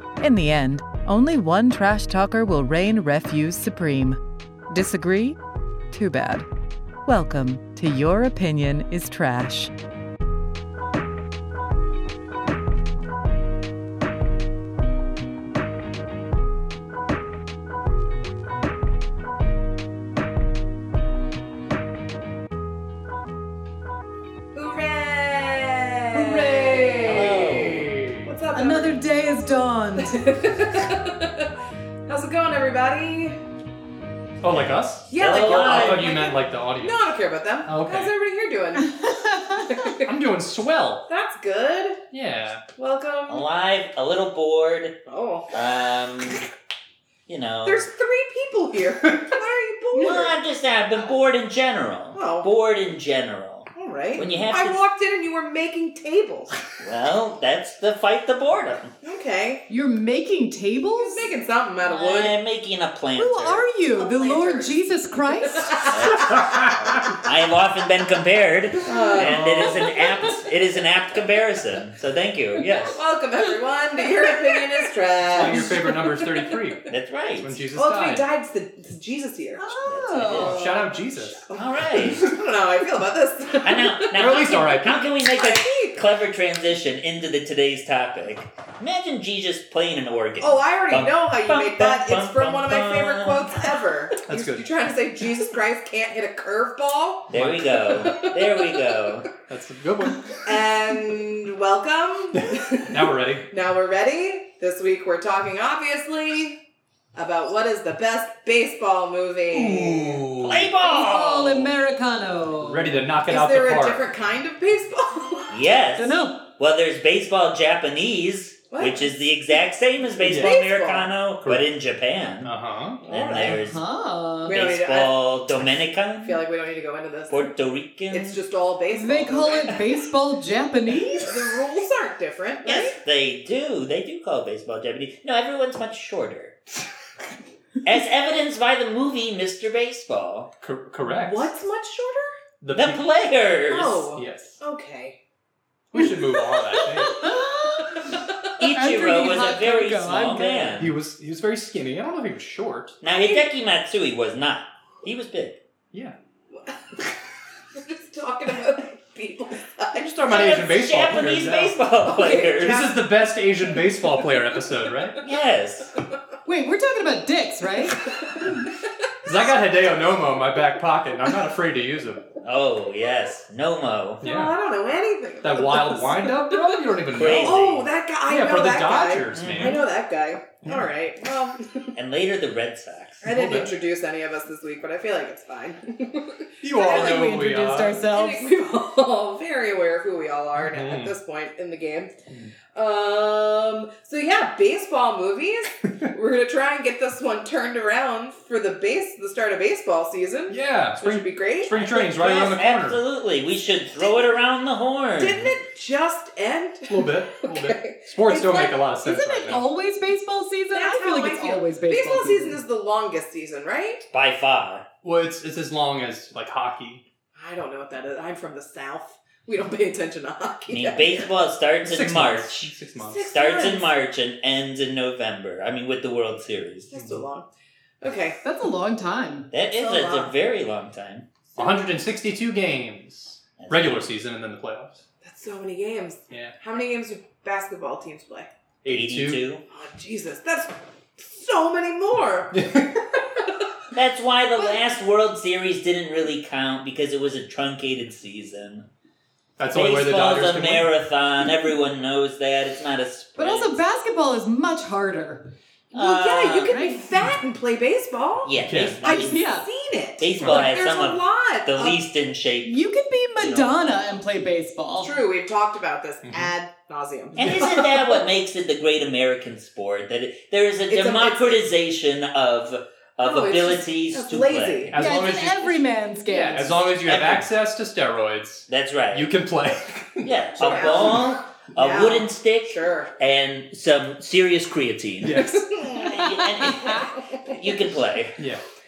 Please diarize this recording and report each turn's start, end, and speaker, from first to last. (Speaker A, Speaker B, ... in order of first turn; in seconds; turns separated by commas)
Speaker A: 0.2-4.2, Speaker A: 4.7-5.4, Speaker A: 5.9-6.5, Speaker A: 7.0-9.7, Speaker B: 24.5-29.0, Speaker A: 26.1-27.3, Speaker C: 27.0-27.9, Speaker D: 27.1-28.2, Speaker A: 28.5-30.1, Speaker B: 30.0-31.5, Speaker B: 32.1-33.4, Speaker D: 34.4-37.1, Speaker B: 35.1-39.0, Speaker C: 35.1-36.1, Speaker D: 37.6-38.1, Speaker A: 38.9-39.6, Speaker B: 39.5-40.1, Speaker D: 40.0-41.0, Speaker B: 41.1-42.0, Speaker D: 42.1-42.6, Speaker B: 42.8-43.4, Speaker C: 43.3-45.0, Speaker B: 45.0-45.5, Speaker C: 45.5-46.4, Speaker C: 47.3-47.9, Speaker B: 47.6-50.4, Speaker C: 49.9-54.8, Speaker B: 52.1-52.5, Speaker B: 53.7-56.6, Speaker C: 56.8-58.9, Speaker B: 59.0-59.6, Speaker A: 59.7-61.3, Speaker B: 61.0-62.3, Speaker C: 61.8-63.7, Speaker A: 63.2-65.8, Speaker B: 63.9-64.8, Speaker B: 65.5-66.7, Speaker C: 65.8-73.0, Speaker D: 66.3-66.7, Speaker B: 68.8-70.0, Speaker D: 69.2-69.6, Speaker B: 72.8-76.5, Speaker D: 75.3-78.2, Speaker C: 76.9-77.6, Speaker B: 77.7-79.7, Speaker A: 79.6-80.8, Speaker C: 79.8-80.6, Speaker D: 80.3-81.4, Speaker B: 80.3-86.0, Speaker C: 81.5-82.3, Speaker C: 83.6-93.8, Speaker D: 84.1-85.0, Speaker B: 90.4-98.8, Speaker D: 94.3-94.7, Speaker C: 97.3-99.3, Speaker D: 97.3-97.8, Speaker D: 99.5-100.4, Speaker B: 100.4-106.6, Speaker D: 102.3-103.5, Speaker B: 107.1-110.3, Speaker D: 109.5-110.7, Speaker C: 110.4-111.7, Speaker A: 110.8-113.0, Speaker D: 112.6-114.0, Speaker B: 113.3-115.5, Speaker C: 115.5-122.5, Speaker A: 116.0-116.5, Speaker B: 118.7-119.2, Speaker B: 120.2-121.1, Speaker D: 120.2-120.5, Speaker D: 122.4-123.0, Speaker B: 123.0-123.6, Speaker C: 123.0-123.8, Speaker A: 123.4-124.5, Speaker B: 124.5-125.2, Speaker C: 124.5-126.4, Speaker B: 126.2-127.5, Speaker C: 127.3-128.4, Speaker B: 128.1-130.0, Speaker A: 128.9-131.4, Speaker B: 131.2-133.0, Speaker C: 132.6-136.6, Speaker C: 137.8-140.5, Speaker D: 140.6-141.5, Speaker B: 141.1-142.3, Speaker D: 142.6-143.1, Speaker C: 142.7-144.1, Speaker B: 143.5-145.2, Speaker D: 144.1-144.6, Speaker D: 145.9-147.3, Speaker A: 147.1-147.9, Speaker C: 148.6-151.0, Speaker A: 148.6-150.8, Speaker D: 150.8-153.0, Speaker C: 153.0-155.6, Speaker B: 153.1-153.4, Speaker B: 156.5-156.8, Speaker B: 157.7-160.1, Speaker D: 159.9-161.8, Speaker C: 160.2-162.9, Speaker B: 162.0-163.0, Speaker D: 162.5-165.2, Speaker C: 165.2-165.9, Speaker A: 166.4-168.0, Speaker D: 169.2-172.2, Speaker C: 172.4-174.2, Speaker D: 174.2-174.6, Speaker B: 174.2-181.9, Speaker D: 175.4-177.6, Speaker C: 177.1-177.9, Speaker D: 178.2-179.8, Speaker C: 179.3-179.8, Speaker D: 180.6-180.9, Speaker C: 181.9-183.2, Speaker D: 183.2-183.7, Speaker B: 183.2-187.3, Speaker D: 186.6-188.0, Speaker A: 186.8-188.5, Speaker B: 188.0-192.1, Speaker D: 190.6-191.1, Speaker B: 192.7-202.5, Speaker D: 200.5-203.0, Speaker C: 201.8-205.5, Speaker B: 204.0-204.3, Speaker B: 205.2-208.9, Speaker D: 206.9-209.6, Speaker A: 209.0-212.6, Speaker B: 210.7-214.1, Speaker C: 214.1-214.8, Speaker D: 215.0-217.0, Speaker B: 217.3-221.3, Speaker C: 220.7-222.7, Speaker D: 221.8-223.3, Speaker B: 223.0-223.9, Speaker C: 223.3-227.2, Speaker B: 226.9-227.5, Speaker B: 228.0-228.4, Speaker A: 228.4-229.5, Speaker C: 229.5-231.3, Speaker B: 229.7-230.3, Speaker D: 231.6-235.0, Speaker B: 231.6-231.9, Speaker C: 233.6-234.0, Speaker B: 235.2-238.5, Speaker D: 236.3-236.5, Speaker D: 238.8-239.4, Speaker C: 238.8-239.6, Speaker B: 239.7-243.6, Speaker D: 242.5-242.9, Speaker C: 243.9-248.8, Speaker D: 249.6-250.9, Speaker C: 249.7-253.8, Speaker A: 253.4-255.4, Speaker C: 255.9-256.8, Speaker B: 255.9-262.0, Speaker A: 256.6-257.0, Speaker C: 258.4-259.4, Speaker D: 258.6-259.1, Speaker A: 259.1-259.7, Speaker C: 260.2-262.8, Speaker D: 260.4-260.7, Speaker A: 262.6-265.2, Speaker C: 263.4-264.0, Speaker B: 265.0-268.1, Speaker D: 266.2-266.5, Speaker C: 267.4-274.9, Speaker D: 267.4-267.8, Speaker B: 270.9-271.6, Speaker B: 273.2-275.2, Speaker D: 274.9-281.2, Speaker A: 274.9-276.9, Speaker C: 277.0-277.5, Speaker C: 278.7-279.3, Speaker C: 280.2-288.4, Speaker B: 280.6-283.1, Speaker D: 285.2-285.7, Speaker B: 285.4-287.6